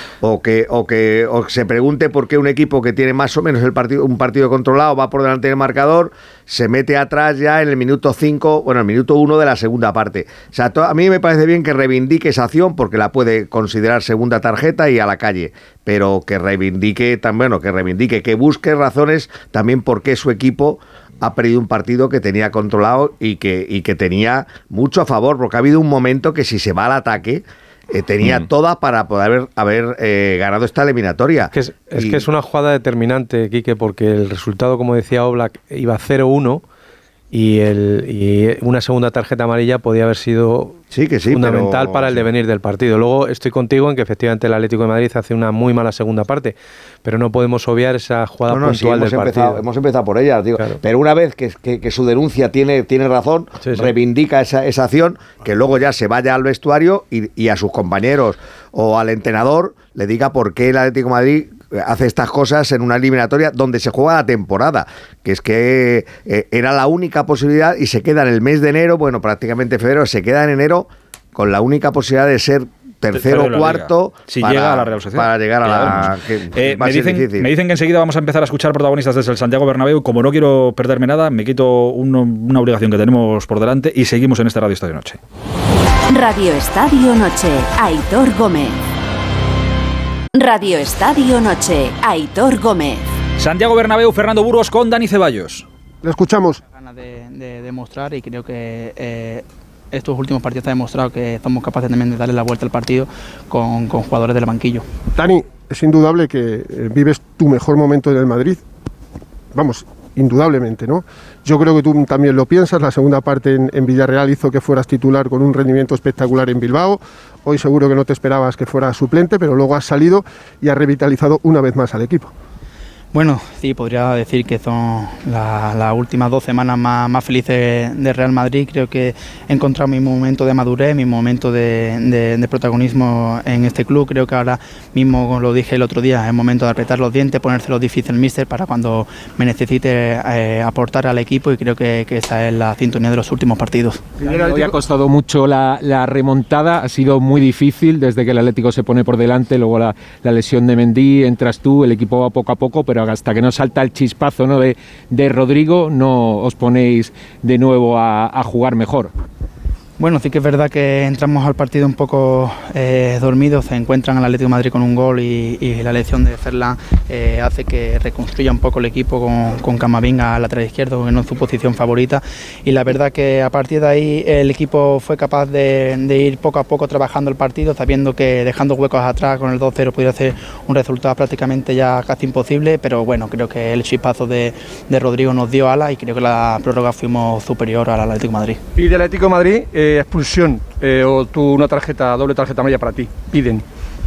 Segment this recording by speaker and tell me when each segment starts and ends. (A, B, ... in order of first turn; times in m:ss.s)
0:00.2-0:32.2 A
0:31.5-0:36.6 B
0:37.3-0:49.6 B
0:40.9-0:42.2 A
0:48.5-1:17.5 A
1:13.1-1:25.2 C
1:26.1-1:28.8 D
1:30.4-1:33.0 D
1:33.4-1:35.6 C
1:36.0-1:36.6 E
1:36.7-1:44.8 F
1:45.1-1:48.6 E
1:49.5-2:02.3 E
2:03.1-2:24.0 F
2:24.2-2:39.1 G
2:24.3-2:24.6 H
2:40.0-3:08.6 F
3:08.8-3:13.6 H